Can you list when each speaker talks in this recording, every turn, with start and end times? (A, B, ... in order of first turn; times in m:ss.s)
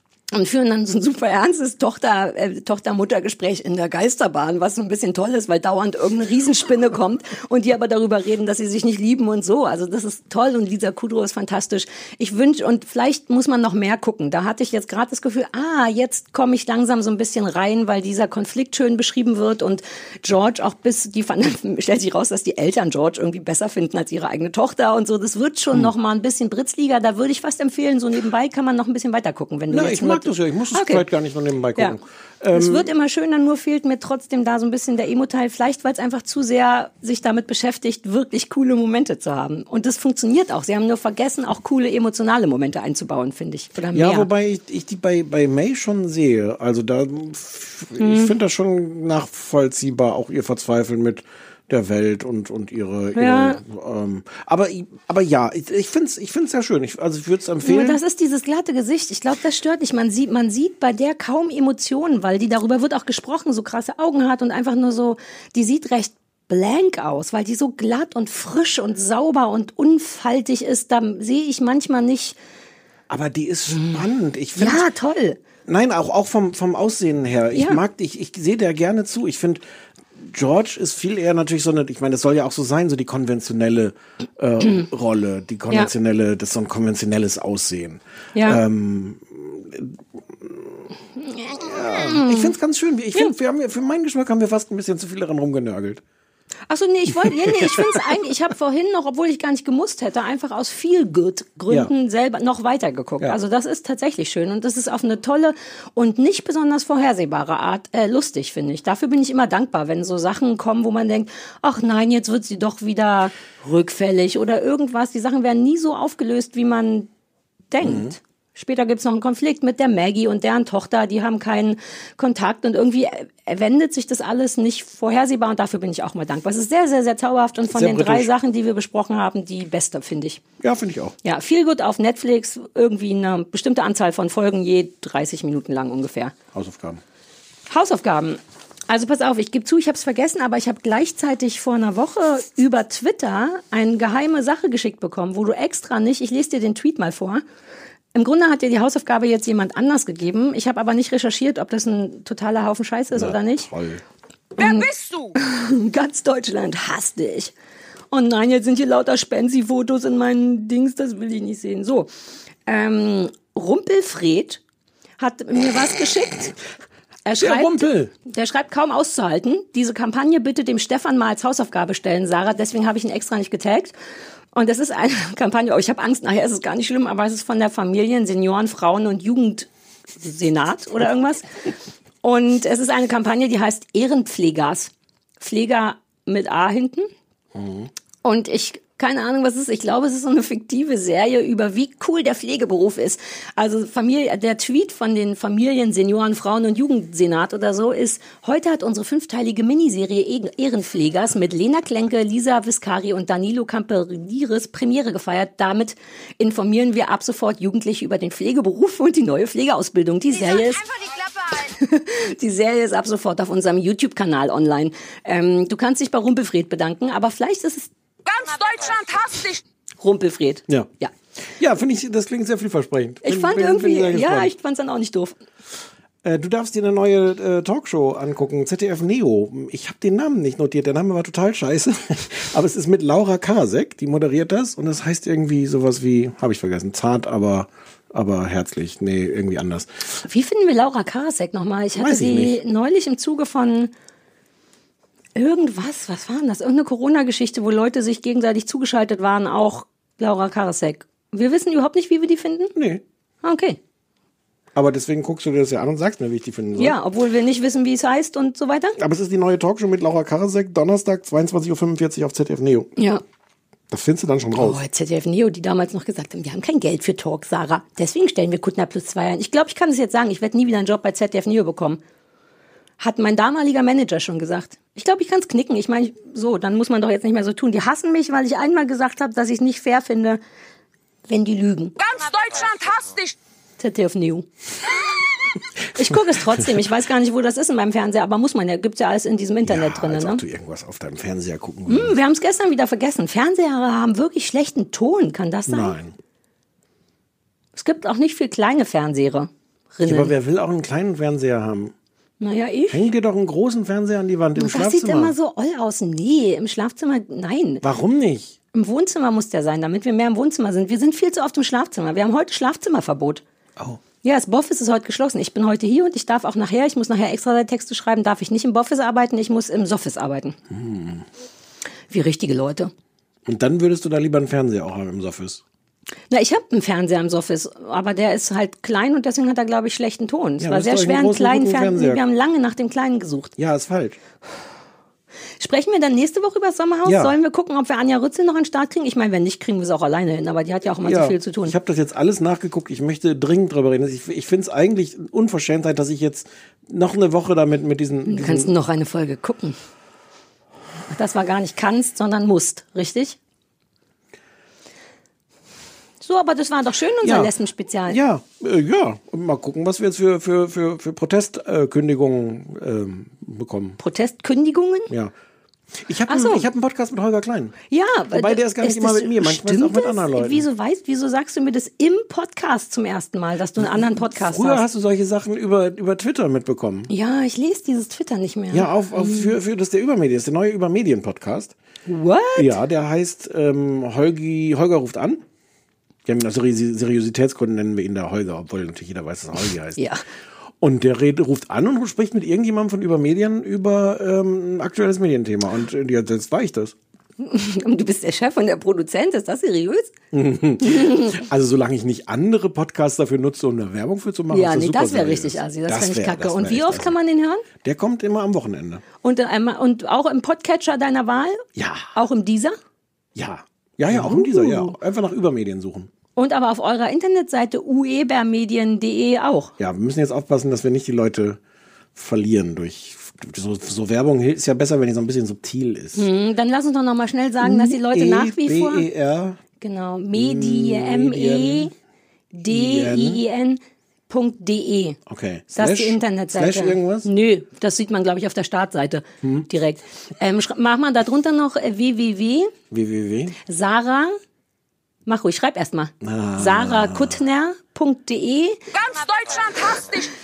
0:00.3-0:31.0 A
0:29.7-0:32.9 B
0:32.5-0:44.3 A
0:43.9-0:58.0 B
0:48.0-0:48.3 A
0:53.2-0:53.6 A
0:57.6-1:12.4 A
1:13.1-1:14.9 B
1:13.7-1:14.0 A
1:14.6-1:15.4 A
1:15.6-1:19.6 B
1:17.5-1:17.8 A
1:20.2-1:30.8 B
1:28.3-1:28.6 A
1:31.4-1:36.0 B
1:31.5-1:32.5 A
1:36.7-1:57.1 A
1:37.2-1:38.0 B
1:57.7-2:10.4 A
1:57.8-1:58.2 B
2:07.7-2:08.3 B
2:10.6-2:11.1 B
2:11.2-2:16.3 A
2:16.5-2:17.0 B
2:17.7-2:27.4 A
2:28.1-2:33.7 A
2:33.1-2:34.0 B
2:34.6-2:37.5 A
2:34.6-2:35.3 C
2:38.1-2:42.1 A
2:42.7-2:44.6 A
2:45.2-2:46.6 A
2:47.2-2:53.9 A
2:47.4-2:48.1 B
2:54.5-3:01.4 A
3:02.2-3:07.1 A
3:07.5-3:07.9 B
3:08.2-3:30.8 A
3:30.5-3:31.6 C
3:31.6-3:37.9 A
3:38.2-3:39.6 C
3:40.0-3:41.1 A
3:41.4-3:44.5 B
3:43.2-3:45.4 A
3:46.2-4:00.2 B
4:00.2-4:03.9 A
4:01.9-4:02.6 B
4:05.4-4:12.7 A
4:12.7-4:13.0 B
4:13.4-4:13.8 A
4:14.7-4:17.0 B
4:16.8-4:19.0 A
4:19.0-4:22.9 B
4:23.0-4:23.2 A
4:23.9-4:24.8 B
4:24.6-4:32.0 A
4:33.0-4:40.4 A
4:41.3-4:41.9 A
4:42.0-4:43.4 C
4:43.8-4:44.4 A
4:45.9-4:50.4 A
4:49.6-4:52.2 B
4:51.9-4:55.9 A
4:55.7-4:56.2 B
4:57.7-5:00.3 A
5:00.0-5:01.9 B
5:02.4-5:03.0 A
5:02.9-5:05.3 B
5:04.6-5:07.8 A
5:07.8-5:08.6 B
5:08.7-5:13.4 A
5:14.2-5:20.6 A
5:20.7-5:21.2 B
5:22.1-5:22.9 A
5:23.4-5:25.6 B
5:26.3-5:33.5 A
5:30.6-5:32.2 B
5:33.6-5:34.2 B
5:35.6-5:41.7 A
5:37.0-5:37.3 B
5:41.0-5:48.7 B
5:48.3-5:49.8 A
5:51.1-5:53.4 A
5:56.2-5:58.2 A
5:57.2-5:57.5 B
5:58.1-6:04.0 B
6:04.0-6:05.1 A
6:05.1-6:05.3 B
6:06.0-6:07.8 B
6:06.3-6:06.6 A
6:07.9-6:14.8 A
6:08.3-6:10.6 B
6:13.9-6:17.1 B
6:17.1-6:19.5 A
6:18.7-6:21.7 B
6:22.1-6:22.7 A
6:22.6-6:25.4 B
6:26.2-6:30.1 B
6:30.0-6:30.2 A
6:30.8-6:36.9 B
6:37.4-6:40.1 A
6:40.3-6:47.2 B
6:44.5-6:47.6 A
6:47.8-6:49.0 B
6:49.2-6:52.8 A
6:51.8-6:52.1 B
6:53.3-6:56.1 B
6:54.1-6:54.9 A
6:56.4-6:59.7 A
6:59.8-7:01.6 B
7:02.2-7:06.3 B
7:06.1-7:09.1 A
7:07.6-7:09.6 B
7:09.8-7:11.9 A
7:10.3-7:11.9 B
7:12.5-7:15.2 A
7:12.7-7:13.4 B
7:15.2-7:17.3 B
7:15.7-7:22.7 A
7:22.9-7:23.5 B
7:23.7-7:24.4 A
7:25.2-7:28.8 A
7:26.2-7:27.4 B
7:28.9-7:30.3 C